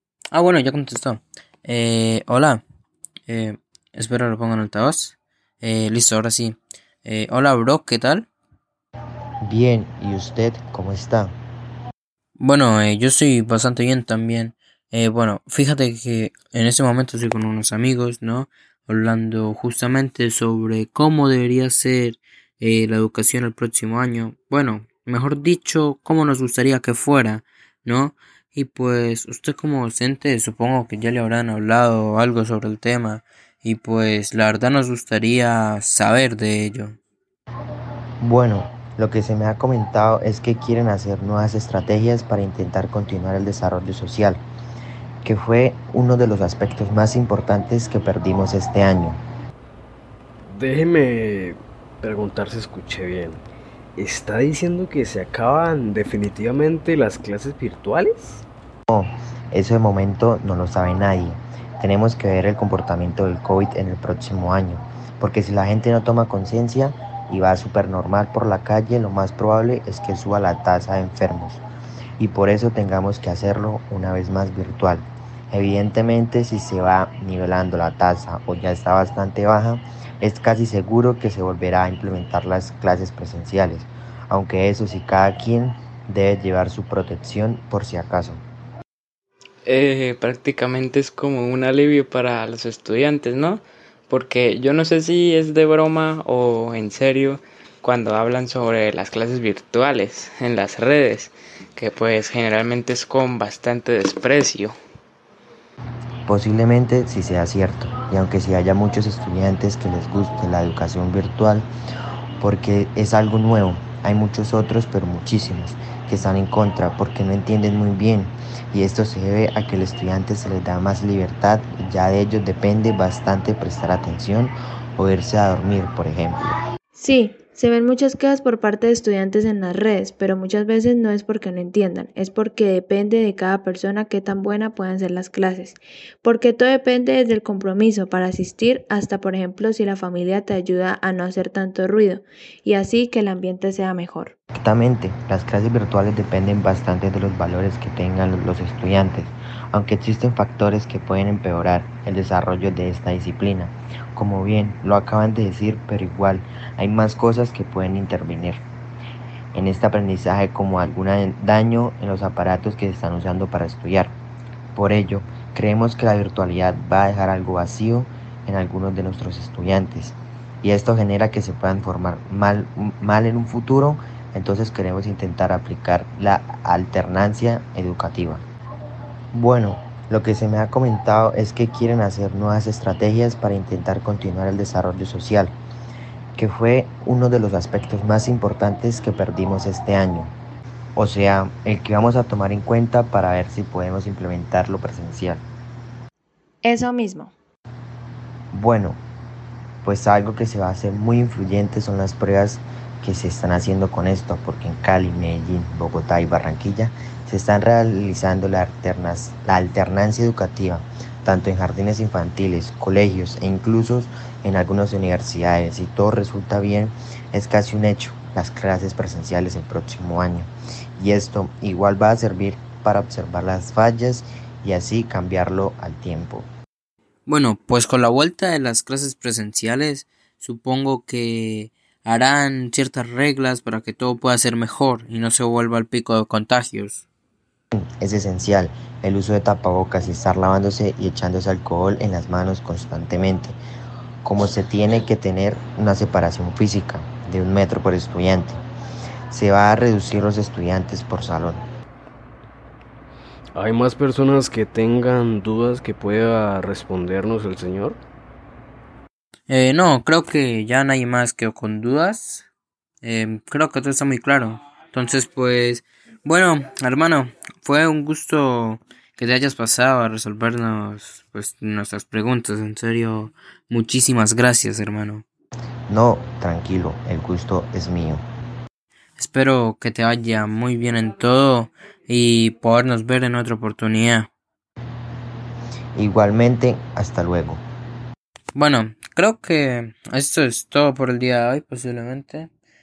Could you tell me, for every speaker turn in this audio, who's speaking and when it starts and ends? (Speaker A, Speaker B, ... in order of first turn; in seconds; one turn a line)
Speaker A: 0.3-2.6
Speaker A: 3.3-8.3
Speaker B: 9.4-11.4
Speaker A: 12.4-37.0
Speaker B: 38.2-44.4
Speaker B: 45.2-49.2
Speaker C: 50.5-53.4
Speaker C: 54.0-58.4
Speaker B: 58.9-71.6
Speaker B: 72.2-88.4
Speaker D: 89.7-104.7
Speaker B: 106.3-111.7
Speaker B: 112.4-126.5
Speaker E: 127.0-144.3
Speaker B: 144.5-158.6
Speaker B: 159.5-164.1
Speaker B: 164.7-178.4
Speaker B: 179.3-185.6
Speaker B: 186.3-190.3
Speaker B: 190.9-195.4
Speaker E: 196.6-197.3
Speaker B: 198.5-199.0
Speaker B: 199.8-226.5
Speaker A: 227.3-237.1
Speaker B: 237.7-243.6
Speaker B: 244.2-248.6
Speaker B: 249.3-251.6
Speaker C: 253.5-258.0
Speaker A: 259.5-262.4
Speaker A: 263.0-275.2
Speaker B: 275.9-278.2
Speaker A: 279.2-284.3
Speaker B: 285.9-287.6
Speaker A: 288.5-292.5